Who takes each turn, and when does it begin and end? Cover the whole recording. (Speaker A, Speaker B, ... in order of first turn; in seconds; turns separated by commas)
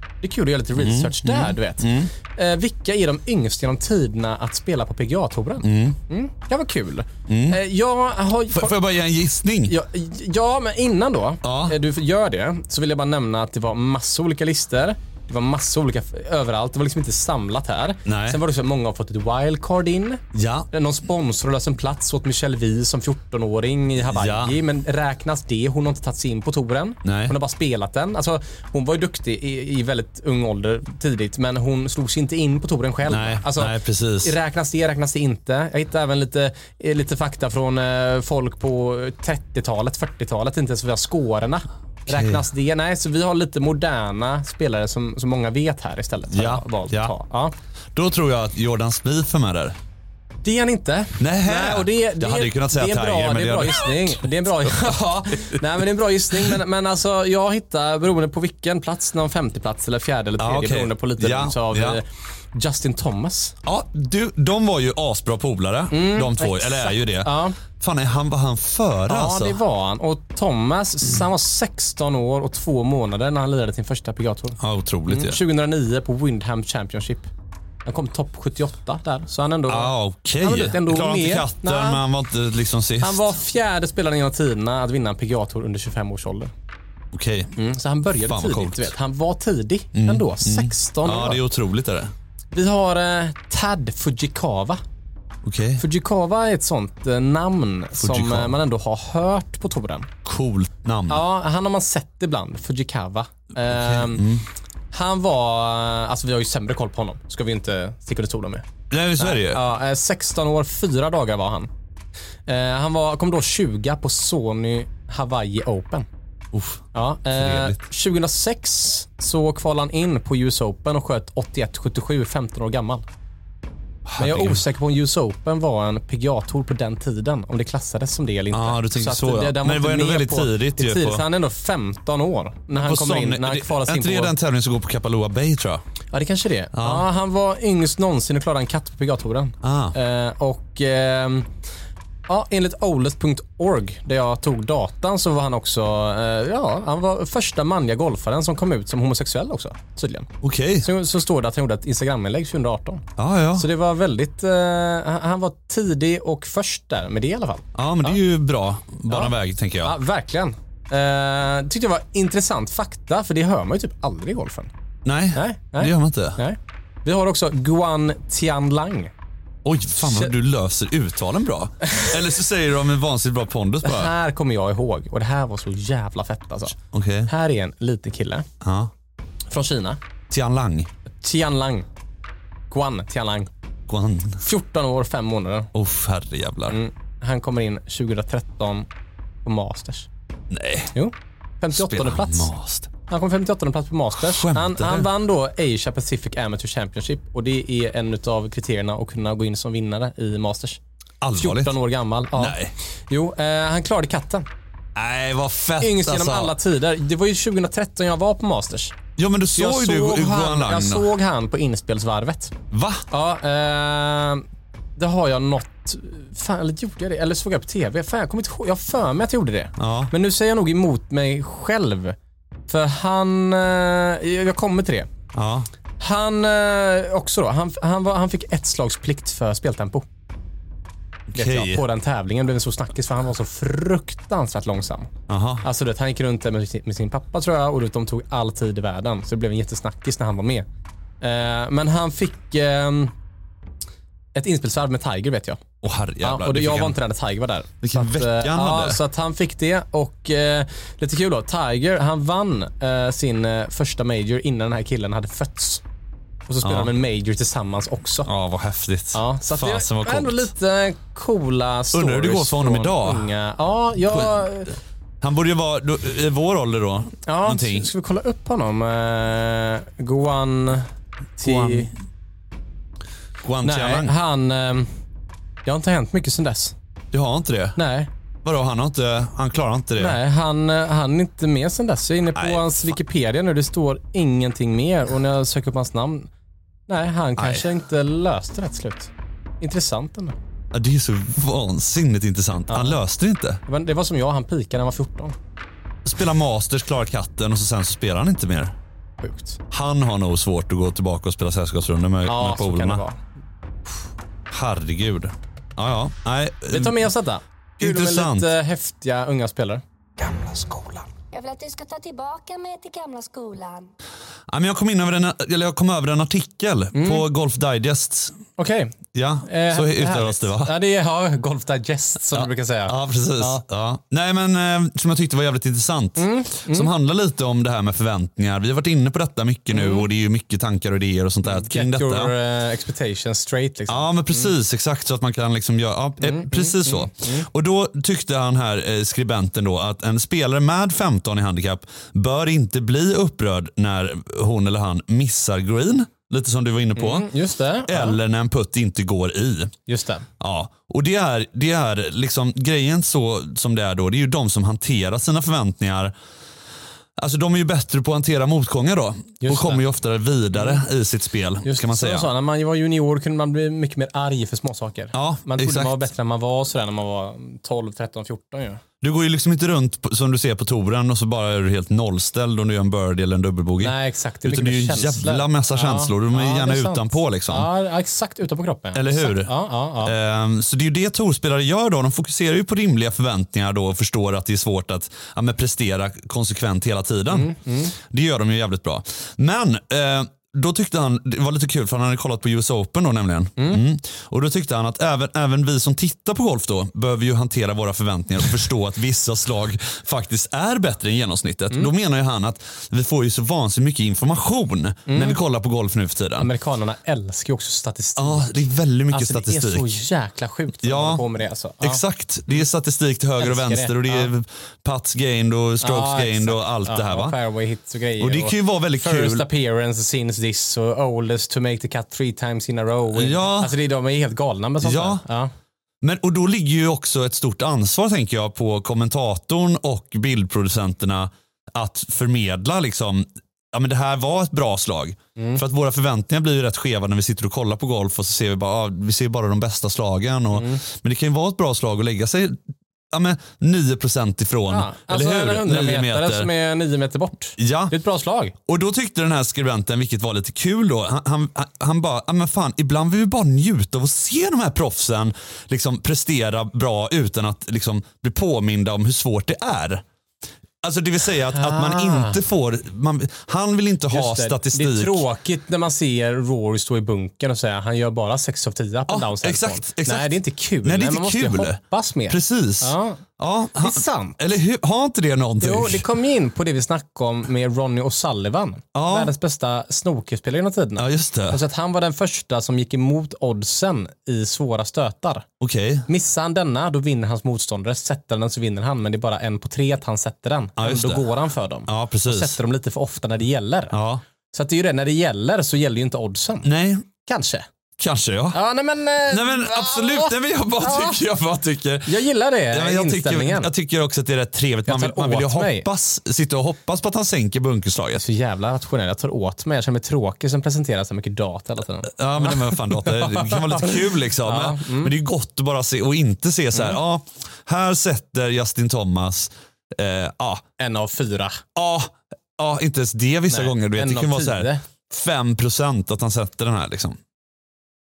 Speaker A: 0.2-8.8, Speaker B: 0.8-2.1, Speaker B: 5.6-6.0, Speaker B: 7.3-7.6, Speaker B: 8.5-9.7, Speaker A: 9.7-47.5, Speaker B: 11.4-11.8, Speaker B: 18.1-18.4, Speaker B: 20.3-20.7, Speaker B: 24.1-24.6, Speaker B: 27.0-27.3, Speaker B: 33.1-34.3, Speaker B: 42.1-42.4, Speaker B: 46.3-47.1, Speaker B: 47.9-49.8, Speaker A: 50.4-63.6, Speaker B: 51.2-55.6, Speaker B: 60.4-62.0, Speaker B: 63.6-69.6, Speaker A: 65.9-67.6, Speaker A: 69.1-77.3, Speaker B: 74.6-75.4, Speaker A: 77.8-82.0, Speaker B: 79.7-83.3, Speaker A: 83.0-86.5, Speaker B: 87.1-87.5, Speaker A: 87.6-91.4, Speaker B: 88.2-88.9, Speaker B: 89.9-92.1, Speaker A: 92.5-94.8, Speaker B: 95.4-95.8, Speaker A: 95.8-100.1, Speaker B: 98.0-98.5, Speaker B: 100.2-101.2, Speaker A: 101.1-104.3, Speaker B: 103.6-104.5, Speaker A: 104.9-108.6, Speaker B: 108.9-109.6, Speaker A: 109.2-111.7, Speaker A: 112.5-116.1, Speaker B: 116.5-117.8, Speaker A: 116.9-123.0, Speaker B: 124.1-124.6, Speaker A: 124.2-134.3, Speaker B: 128.5-131.2, Speaker B: 132.7-135.8, Speaker A: 136.1-141.5, Speaker B: 136.7-137.1, Speaker B: 139.6-139.9, Speaker A: 142.3-153.1, Speaker B: 150.4-150.9, Speaker B: 153.2-153.7, Speaker A: 153.6-158.2, Speaker B: 157.7-159.9, Speaker A: 159.1-164.7, Speaker B: 165.1-166.4, Speaker A: 165.3-169.1, Speaker B: 169.6-174.1, Speaker A: 170.1-170.3, Speaker A: 171.8-172.1, Speaker A: 173.8-178.5, Speaker B: 176.9-177.3, Speaker B: 178.6-178.9, Speaker A: 179.5-180.0, Speaker B: 180.3-180.9, Speaker A: 181.2-181.9, Speaker A: 182.7-183.5, Speaker B: 183.9-184.4, Speaker A: 184.4-185.7, Speaker B: 185.7-186.8, Speaker A: 186.7-188.9, Speaker A: 189.4-190.1, Speaker B: 190.5-190.9, Speaker A: 190.9-192.5, Speaker B: 191.7-192.9, Speaker A: 193.1-200.8, Speaker B: 194.2-195.1, Speaker B: 201.2-201.8, Speaker A: 201.3-204.4, Speaker B: 202.3-202.7, Speaker B: 204.9-206.5, Speaker A: 205.8-208.9, Speaker B: 209.2-211.1, Speaker A: 209.6-212.6, Speaker B: 212.7-213.1, Speaker A: 213.1-214.4, Speaker A: 215.0-222.2, Speaker B: 219.8-220.1, Speaker A: 222.7-225.1, Speaker B: 225.3-225.7, Speaker A: 226.0-230.1, Speaker B: 231.3-231.8, Speaker A: 231.3-235.1, Speaker B: 235.3-235.6, Speaker A: 235.6-240.7, Speaker A: 241.2-243.1, Speaker A: 244.3-245.6, Speaker B: 245.8-247.0, Speaker A: 246.2-255.8, Speaker B: 247.8-249.0, Speaker A: 256.5-258.3, Speaker B: 256.6-256.9, Speaker B: 258.2-260.5, Speaker A: 259.1-264.7, Speaker B: 261.9-263.3, Speaker B: 264.1-264.4, Speaker B: 265.2-267.9, Speaker A: 267.2-271.9, Speaker B: 271.4-271.9, Speaker B: 273.4-274.1, Speaker A: 273.6-274.9, Speaker A: 275.6-276.7, Speaker B: 277.1-277.8, Speaker A: 277.8-278.1, Speaker B: 278.4-280.2, Speaker A: 280.0-286.3, Speaker B: 282.4-282.9, Speaker A: 286.9-290.4, Speaker B: 287.4-287.6, Speaker B: 290.7-293.6, Speaker A: 292.7-293.0, Speaker A: 293.6-295.4, Speaker B: 296.1-298.7, Speaker A: 299.2-299.6, Speaker B: 299.7-303.0, Speaker A: 302.2-303.2, Speaker B: 304.5-307.0, Speaker A: 306.7-309.8, Speaker B: 307.8-308.5, Speaker C: 311.3-313.9, Speaker B: 314.5-318.4, Speaker A: 316.9-317.3, Speaker A: 318.6-323.6, Speaker B: 319.1-320.7, Speaker B: 322.3-332.3, Speaker A: 326.2-326.9, Speaker A: 329.7-330.1, Speaker A: 331.4-334.5, Speaker B: 333.9-347.3, Speaker A: 336.2-337.5, Speaker A: 346.9-348.2, Speaker B: 347.9-349.7, Speaker A: 349.9-350.2, Speaker B: 350.4-356.1, Speaker B: 357.2-362.3, Speaker A: 359.4-359.8, Speaker A: 360.5-360.8, Speaker A: 361.6-368.8, Speaker B: 365.1-366.0, Speaker B: 369.0-377.7, Speaker A: 373.8-380.1, Speaker B: 378.9-406.5, Speaker A: 387.3-387.9, Speaker A: 393.6-393.8, Speaker A: 405.1-405.4, Speaker A: 406.4-408.5, Speaker B: 408.2-410.0, Speaker A: 409.1-412.0, Speaker B: 410.8-411.2, Speaker B: 411.8-417.4, Speaker A: 413.4-414.3, Speaker A: 415.8-425.5, Speaker B: 418.2-419.5, Speaker B: 423.1-423.7, Speaker B: 424.8-425.2, Speaker B: 426.0-442.6, Speaker A: 435.4-435.6, Speaker A: 440.5-440.8, Speaker B: 443.1-446.5, Speaker A: 444.7-448.6, Speaker B: 447.6-447.9, Speaker B: 448.6-460.0, Speaker B: 460.8-465.2, Speaker A: 461.5-462.4, Speaker A: 464.1-473.2, Speaker B: 469.1-476.1, Speaker A: 473.8-474.4, Speaker A: 475.6-485.5, Speaker B: 478.9-479.3, Speaker B: 481.0-481.6, Speaker B: 485.6-486.1, Speaker A: 486.1-493.9, Speaker B: 490.8-491.3, Speaker B: 491.9-492.6, Speaker B: 493.9-494.2, Speaker A: 494.5-496.7, Speaker B: 496.6-497.1, Speaker A: 497.2-497.6, Speaker B: 498.0-498.6, Speaker A: 498.5-501.2, Speaker B: 499.2-502.2, Speaker A: 502.1-503.7, Speaker B: 502.7-508.2, Speaker A: 504.9-505.9, Speaker A: 508.2-515.1, Speaker B: 512.1-520.6, Speaker A: 520.8-521.6, Speaker B: 521.8-527.2, Speaker A: 523.5-524.9